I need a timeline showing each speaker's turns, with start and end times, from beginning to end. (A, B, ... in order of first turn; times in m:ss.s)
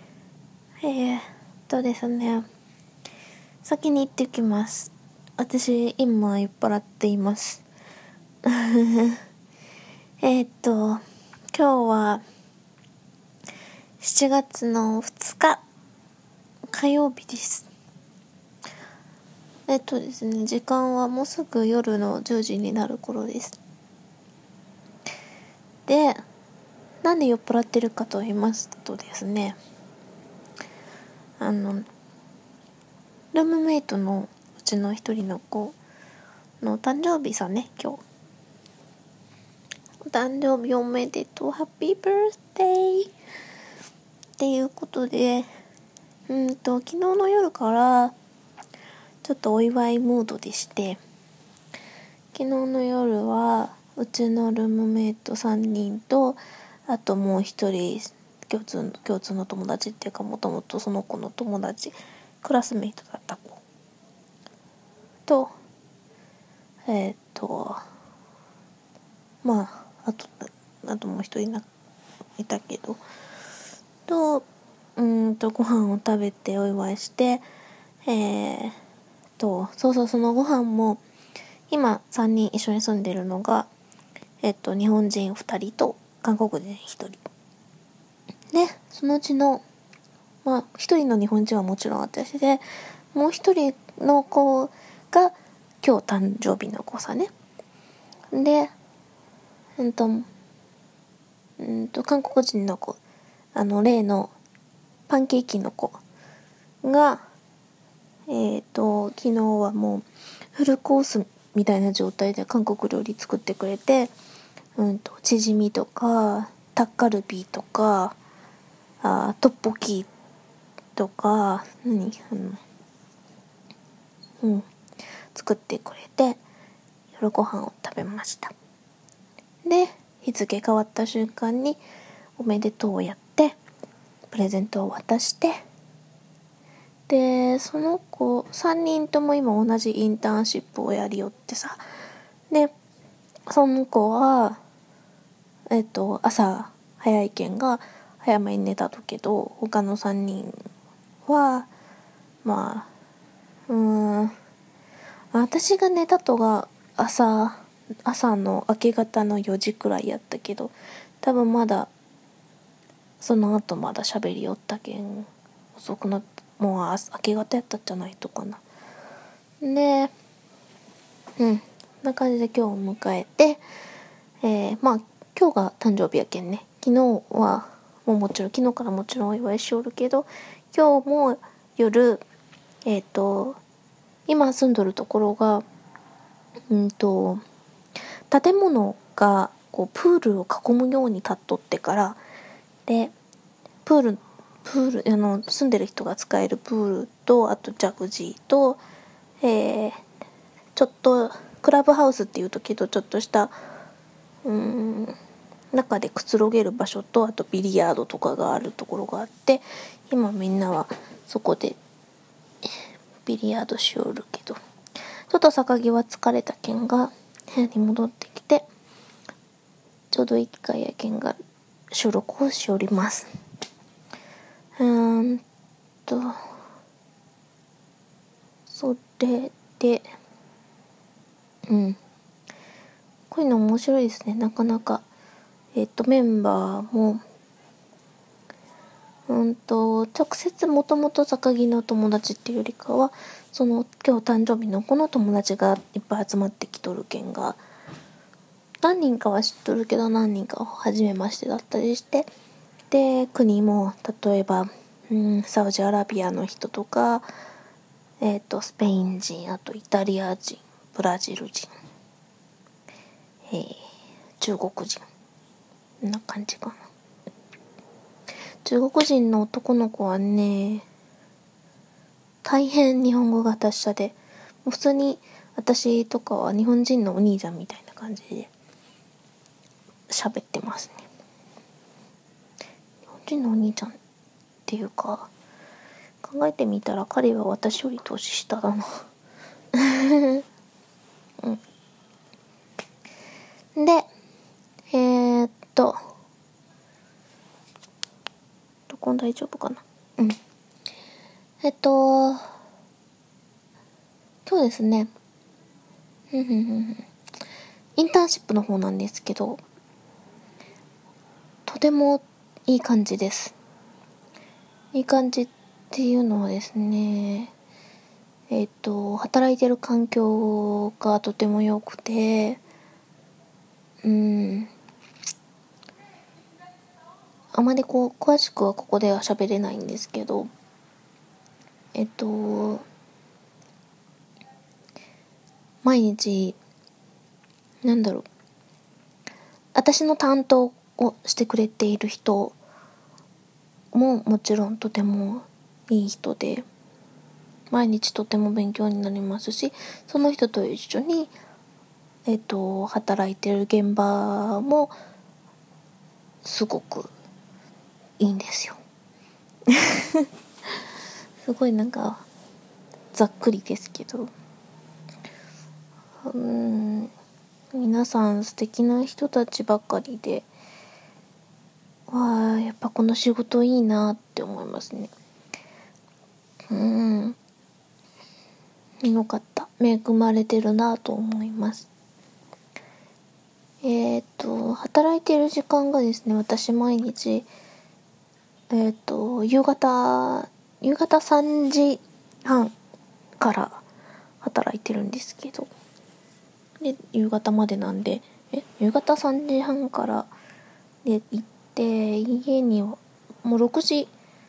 0:00.8-0:02.4 A
0:03.6-0:07.6 A
0:08.4-0:09.2 A
0:10.2-0:11.0 A
0:11.5-0:12.2 A
0:14.0-0:15.6 A
0:16.7-0:17.7 A
0:19.7-0:23.6 A
0:25.8-0:26.2 A
0:27.0-0:29.6 A
0:31.4-0:31.9 A
0:33.3-0:35.8 A
0:36.6-0:38.0 A
0:40.0-0:43.1 A
0:44.4-0:45.5 A
0:46.3-0:48.1 A
0:49.2-0:51.0 A
0:52.3-1:03.6 A
1:05.2-1:05.5 A
1:06.8-1:07.8 A
1:09.4-1:11.6 A
1:12.4-1:13.0 A
1:14.1-1:14.4 A
1:15.0-1:17.4 A
1:18.0-1:18.8 A
1:19.4-1:21.0 A
1:21.7-1:23.7 A
1:24.4-1:27.2 A
1:28.5-1:29.6 A
1:30.4-1:37.3 A
1:38.3-1:38.7 A
1:39.8-1:40.3 A
1:41.6-1:43.0 A
1:43.5-1:44.3 A
1:45.1-1:46.0 A
1:46.8-1:47.2 A
1:48.3-1:54.1 A
1:54.8-1:58.2 A
1:59.0-2:00.1 A
2:01.0-2:02.6 A
2:04.4-2:04.6 A
2:05.3-2:06.4 A
2:07.1-2:08.5 A
2:09.6-2:11.8 A
2:12.4-2:13.6 A
2:14.3-2:15.6 A
2:17.1-2:21.8 A
2:23.5-2:24.6 A
2:25.7-2:30.6 A
2:31.2-2:31.7 A
2:32.4-2:32.9 A
2:33.7-2:34.3 A
2:35.3-2:41.9 A
2:43.2-2:48.6 A
2:49.6-2:50.1 A
2:51.4-2:53.6 A
2:54.4-3:02.2 A
3:02.8-3:03.6 A
3:04.3-3:05.6 A
3:06.7-3:07.4 A
3:08.3-3:12.2 A
3:12.9-3:13.1 A
3:13.8-3:18.8 A
3:19.4-3:20.0 A
3:20.8-3:23.6 A
3:24.4-3:25.2 A
3:25.7-3:31.8 A
3:33.2-3:34.6 A
3:35.3-3:38.7 A
3:40.1-3:41.4 A
3:41.9-3:43.3 A
3:44.8-3:45.4 A
3:46.1-3:46.4 A
3:48.7-3:50.1 A
3:51.7-3:52.0 A
3:53.3-3:55.0 A
3:55.7-3:57.2 A
3:59.3-4:07.6 A
4:08.8-4:12.3 A
4:12.9-4:17.3 A
4:18.2-4:21.7 A
4:23.5-4:23.9 A
4:24.4-4:25.0 A
4:26.0-4:26.9 A
4:28.6-4:30.9 A
4:32.4-4:38.5 A
4:40.1-4:41.0 A
4:43.1-4:44.0 A
4:44.7-4:45.3 A
4:46.2-4:49.0 A
4:49.7-4:50.4 A
4:53.7-4:54.1 A
4:54.9-4:56.0 A
4:58.9-5:00.4 A
5:01.6-5:02.5 A
5:04.4-5:05.1 A
5:06.3-5:07.1 A
5:08.0-5:09.6 A
5:11.6-5:13.5 A
5:14.9-5:17.5 A
5:18.5-5:22.6 A
5:24.0-5:24.7 A
5:27.5-5:30.5 A
5:31.9-5:32.8 A
5:35.8-5:36.6 A
5:37.8-5:38.3 A
5:39.7-5:42.6 A
5:43.9-5:46.6 A
5:47.7-5:51.3 A
5:52.2-5:54.9 A
5:56.4-5:57.1 A
5:58.2-5:58.8 A
5:59.7-6:00.2 A
6:01.4-6:02.2 A
6:03.1-6:04.3 A
6:06.2-6:07.1 A
6:07.7-6:10.5 A
6:12.1-6:15.1 A
6:16.7-6:17.4 A
6:19.0-6:21.9 A
6:23.8-6:27.5 A
6:28.7-6:32.7 A
6:33.4-6:33.8 A
6:34.4-6:35.7 A
6:36.8-6:40.3 A
6:41.0-6:44.1 A